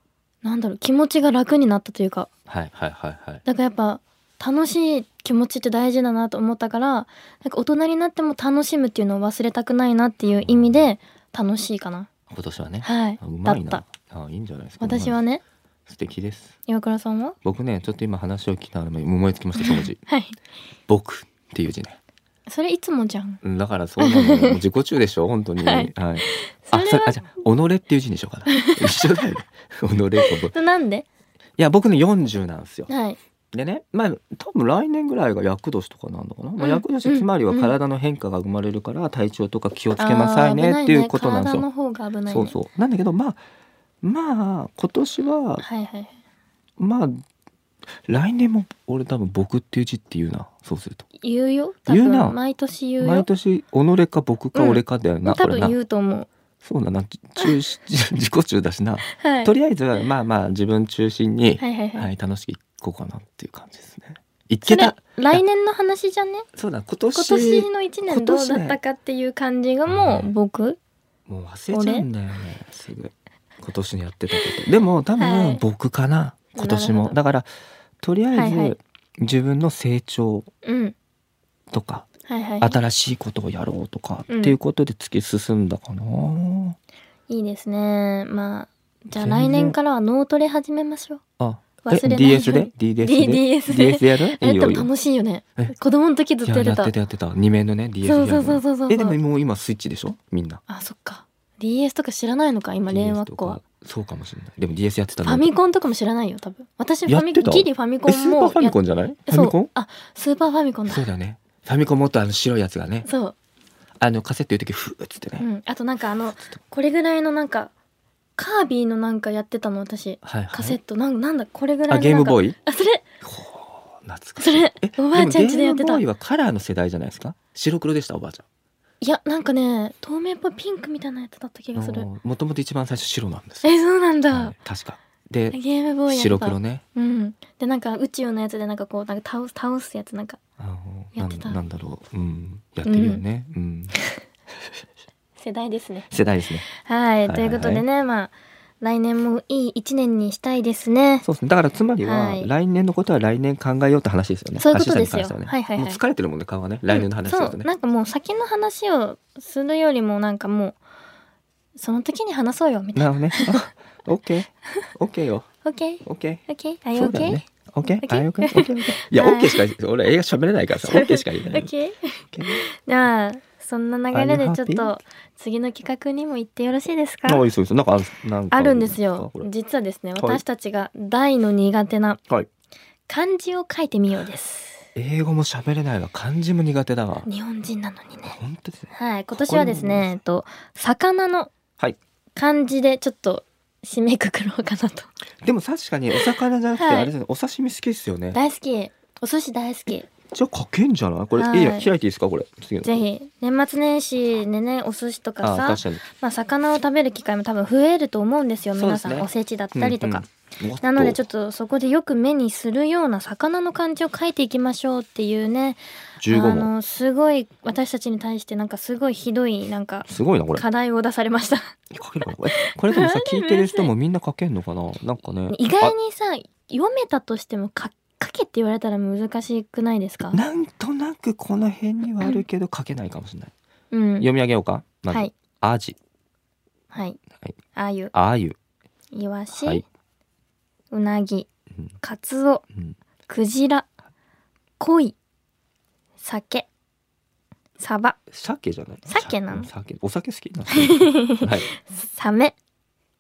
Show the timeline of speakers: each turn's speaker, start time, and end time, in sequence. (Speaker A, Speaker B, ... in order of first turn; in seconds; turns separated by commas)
Speaker A: 0.4-2.3, Speaker B: 2.5-3.4, Speaker A: 3.5-12.1, Speaker B: 10.4-10.8, Speaker B: 12.3-15.2, Speaker A: 12.8-13.8, Speaker A: 14.8-15.4, Speaker B: 15.9-16.6, Speaker A: 16.7-17.4, Speaker B: 17.4-20.0, Speaker A: 19.6-20.4, Speaker B: 20.9-22.0, Speaker A: 22.5-23.4, Speaker B: 23.4-30.5, Speaker A: 24.0-24.6, Speaker A: 25.6-27.2, Speaker A: 28.5-29.2, Speaker A: 30.2-31.1, Speaker B: 31.6-32.9, Speaker A: 32.9-33.2, Speaker B: 33.5-41.7, Speaker A: 36.6-37.7, Speaker A: 40.0-42.6, Speaker B: 42.3-43.4, Speaker B: 44.0-45.6, Speaker A: 45.6-46.1, Speaker B: 46.8-47.2, Speaker B: 48.0-51.1, Speaker A: 51.2-53.3, Speaker B: 51.9-52.4, Speaker B: 53.0-55.8, Speaker A: 54.5-56.3, Speaker B: 56.6-65.4, Speaker A: 59.1-59.5, Speaker A: 61.6-62.1, Speaker A: 64.6-66.5, Speaker B: 66.5-68.8, Speaker A: 67.1-70.8, Speaker B: 69.9-70.3, Speaker B: 71.3-77.5, Speaker A: 71.7-72.1, Speaker A: 75.2-75.6, Speaker A: 76.6-77.2, Speaker B: 78.0-80.5, Speaker A: 78.3-78.8, Speaker A: 80.6-81.0, Speaker B: 81.7-82.1, Speaker A: 82.3-82.8, Speaker B: 82.6-86.8, Speaker A: 84.3-84.6, Speaker A: 87.3-91.2, Speaker B: 89.2-89.8, Speaker B: 91.4-94.9, Speaker A: 91.8-96.9, Speaker B: 96.4-100.6, Speaker A: 98.0-99.2, Speaker A: 100.7-103.6, Speaker B: 102.9-105.5, Speaker A: 105.2-111.1, Speaker B: 107.1-109.7, Speaker B: 110.9-113.1, Speaker A: 113.0-113.3, Speaker B: 114.0-115.5, Speaker A: 115.4-117.7, Speaker A: 118.4-123.0, Speaker B: 120.2-120.8, Speaker B: 121.9-122.6, Speaker B: 123.2-128.4, Speaker A: 124.4-126.0, Speaker A: 129.0-132.1, Speaker B: 131.8-133.7, Speaker A: 133.6-134.6, Speaker B: 134.3-136.8, Speaker A: 135.5-140.4, Speaker B: 140.6-143.9, Speaker A: 141.2-141.6, Speaker A: 142.9-143.2, Speaker A: 145.4-146.1, Speaker B: 146.1-146.7, Speaker A: 146.7-151.2, Speaker B: 147.3-147.8, Speaker B: 151.2-157.7, Speaker A: 152.0-152.5, Speaker A: 154.6-156.0, Speaker A: 156.9-160.8, Speaker A: 161.8-163.6, Speaker B: 162.9-165.5, Speaker A: 165.6-169.6, Speaker B: 166.0-171.7, Speaker A: 170.8-177.4, Speaker B: 172.3-172.6, Speaker B: 174.1-174.9, Speaker B: 177.3-179.5, Speaker A: 178.5-182.2, Speaker A: 183.1-184.9, Speaker B: 184.9-187.3, Speaker A: 187.3-188.4, Speaker B: 188.3-190.2, Speaker A: 188.9-191.5, Speaker A: 192.4-195.1, Speaker B: 195.4-198.4, Speaker A: 196.8-197.1, Speaker A: 198.3-200.1, Speaker B: 200.3-203.0, Speaker A: 201.3-201.9, Speaker A: 202.8-210.3, Speaker B: 205.4-206.0, Speaker B: 208.8-211.2, Speaker A: 210.8-221.8, Speaker B: 216.2-216.7, Speaker B: 220.1-220.7, Speaker B: 221.9-225.9, Speaker A: 222.6-223.9, Speaker A: 225.5-230.4, Speaker B: 230.3-233.5, Speaker A: 233.9-234.3, Speaker B: 234.2-236.0, Speaker A: 236.9-237.2, Speaker A: 237.7-238.1, Speaker B: 238.1-238.6, Speaker A: 239.1-239.8, Speaker B: 239.6-239.8, Speaker A: 240.9-241.5, Speaker A: 242.0-242.6, Speaker A: 243.3-243.9, Speaker A: 244.8-245.2, Speaker A: 246.2-246.7, Speaker A: 247.8-248.2, Speaker B: 248.3-251.7, Speaker A: 249.1-249.7, Speaker A: 250.7-252.6